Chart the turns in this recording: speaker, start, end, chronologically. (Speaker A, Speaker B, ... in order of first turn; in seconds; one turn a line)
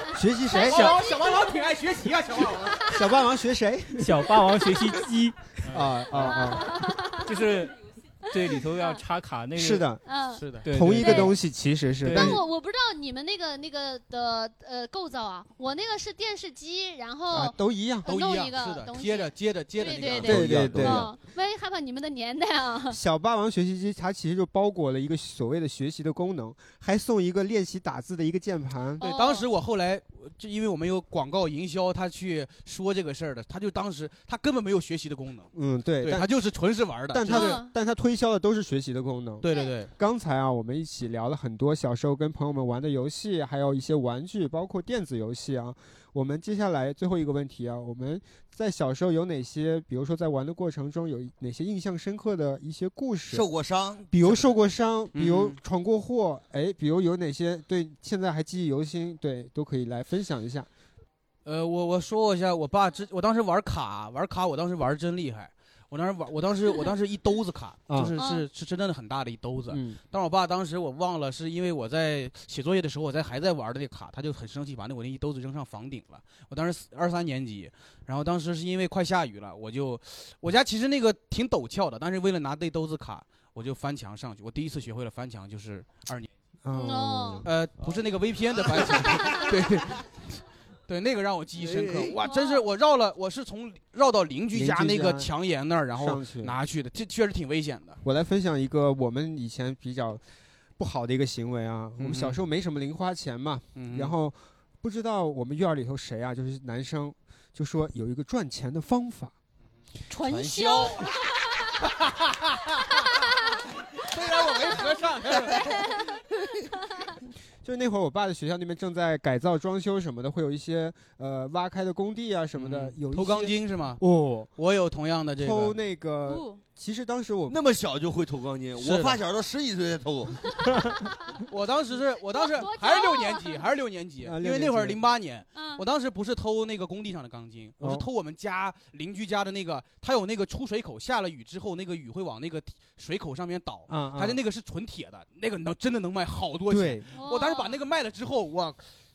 Speaker A: 0.1-1.0
Speaker B: 0.5-1.4
Speaker C: 0.6-2.9
Speaker A: 2.9-4.3
Speaker D: 4.0-5.5
Speaker A: 5.7-6.8
Speaker B: 6.2-7.3
Speaker D: 7.2-7.8
Speaker D: 8.3-9.9
Speaker B: 8.3-9.0
Speaker A: 9.5-10.0
Speaker B: 10.0-11.4
Speaker C: 10.4-10.7
Speaker A: 10.6-12.4
Speaker D: 10.6-11.4
Speaker D: 12.0-12.4
Speaker B: 12.1-23.0
Speaker A: 17.3-18.1
Speaker C: 18.0-20.8
Speaker E: 20.1-21.1
Speaker A: 20.2-21.1
Speaker A: 22.9-29.0
Speaker B: 29.0-29.5
Speaker C: 29.0-37.6
Speaker A: 35.5-36.3
Speaker A: 37.1-53.5
Speaker B: 37.3-37.7
Speaker C: 39.4-39.9
Speaker B: 39.5-39.7
Speaker E: 53.3-54.5
Speaker A: 54.1-60.7
Speaker C: 55.1-55.6
Speaker C: 61.4-86.3
Speaker A: 67.9-68.1
Speaker B: 68.2-68.5
Speaker A: 69.7-70.0
Speaker A: 86.6-87.5
Speaker B: 86.7-87.5
Speaker C: 87.4-98.0
Speaker E: 91.6-92.2
Speaker B: 92.3-92.7
Speaker A: 94.5-95.3
Speaker A: 95.9-96.5
Speaker A: 98.0-100.2
Speaker A: 100.8-109.3
Speaker C: 102.0-102.4
Speaker C: 103.8-104.1
Speaker B: 110.1-111.7
Speaker E: 110.2-111.1
Speaker C: 111.8-112.6
Speaker B: 112.9-113.3
Speaker C: 114.0-115.6
Speaker E: 115.3-116.2
Speaker B: 115.6-116.0
Speaker A: 117.6-124.5
Speaker C: 122.5-124.0
Speaker C: 124.5-125.8
Speaker A: 125.4-127.6
Speaker B: 126.2-126.6
Speaker E: 127.5-130.6
Speaker C: 128.8-129.2
Speaker C: 131.5-148.8
Speaker B: 132.3-133.6
Speaker A: 134.2-135.0
Speaker B: 135.5-135.8
Speaker A: 137.8-138.1
Speaker A: 143.9-144.4
Speaker A: 146.7-147.1
Speaker B: 147.1-147.8